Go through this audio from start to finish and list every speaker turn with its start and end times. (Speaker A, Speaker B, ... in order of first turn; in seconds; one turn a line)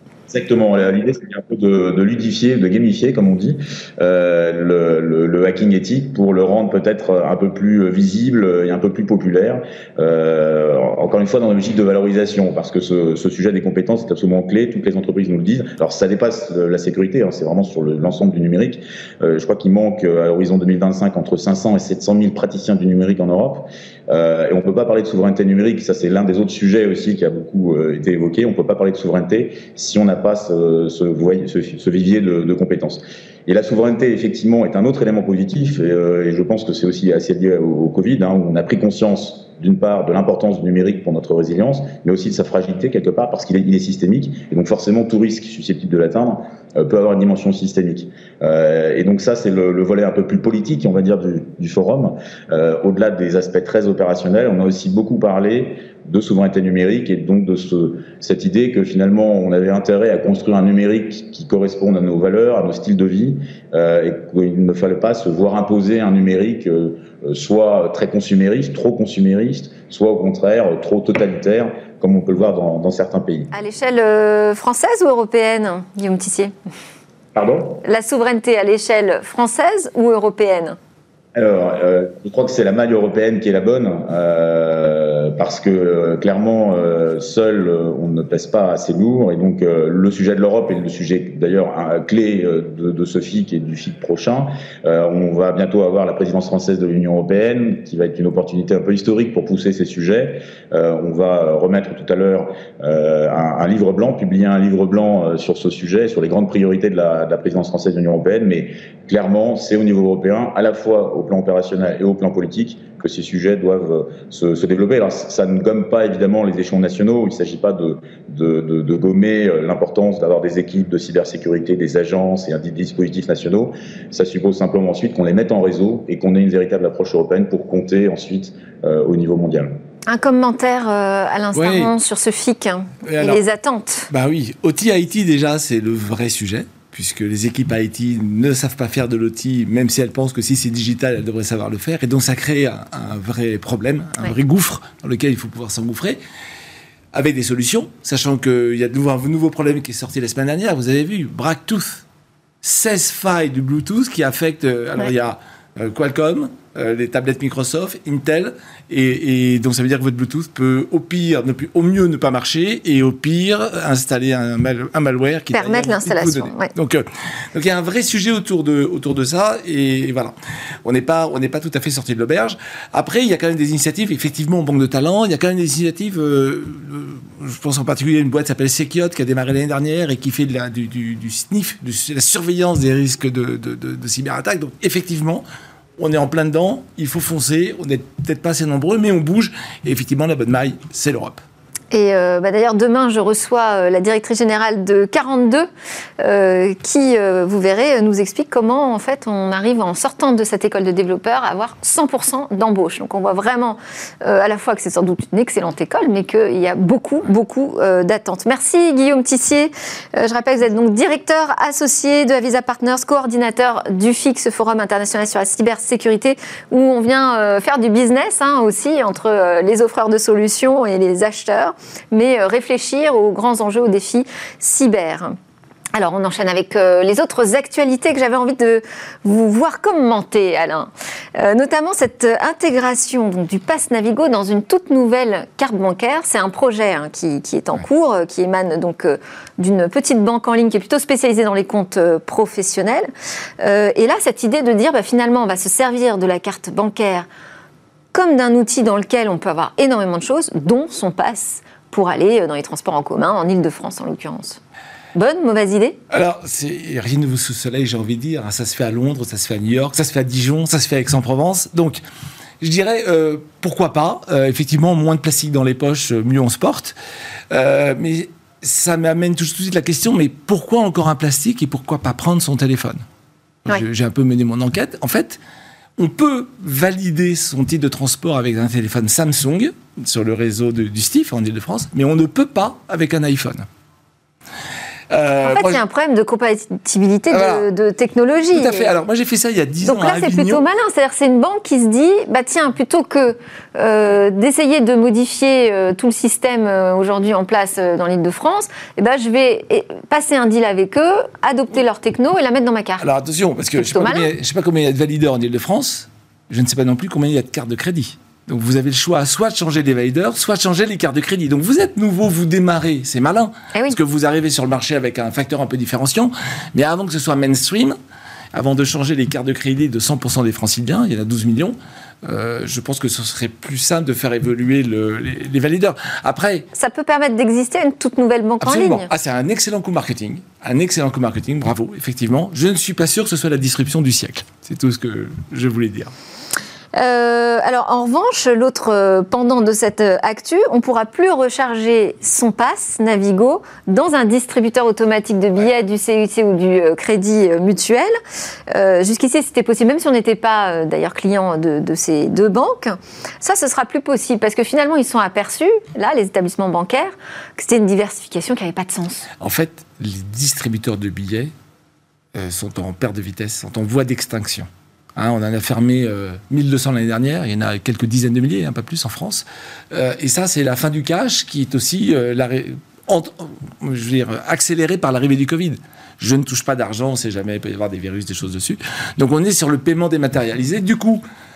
Speaker A: 0.3-73.5
Speaker B: 73.5-76.5
Speaker A: 77.3-77.8
Speaker B: 77.8-80.8
Speaker A: 81.3-129.7
Speaker B: 130.1-134.1
Speaker C: 131.6-131.9
Speaker C: 133.0-133.4
Speaker C: 134.1-146.2
Speaker C: 147.1-152.0
Speaker C: 152.6-185.4
Speaker B: 165.5-166.7
Speaker C: 186.0-191.4
Speaker B: 191.9-195.7
Speaker B: 196.2-225.4
Speaker B: 225.9-243.1
Speaker B: 243.6-247.3
Speaker B: 248.1-254.6
Speaker B: 255.2-256.0
Speaker C: 256.1-262.0
Speaker C: 262.6-266.9
Speaker C: 267.5-273.0
Speaker C: 273.7-275.4
Speaker C: 276.0-283.7
Speaker C: 285.1-285.8
Speaker B: 285.4-288.9
Speaker C: 287.3-287.7
Speaker C: 288.5-290.6
Speaker B: 289.8-303.1
Speaker C: 303.0-318.0
Speaker B: 303.8-304.3
Speaker C: 318.5-326.7
Speaker B: 326.7-329.1
Speaker C: 328.6-336.1
Speaker B: 336.9-348.1
Speaker B: 348.7-359.3
Speaker C: 359.4-361.5
Speaker C: 362.3-381.2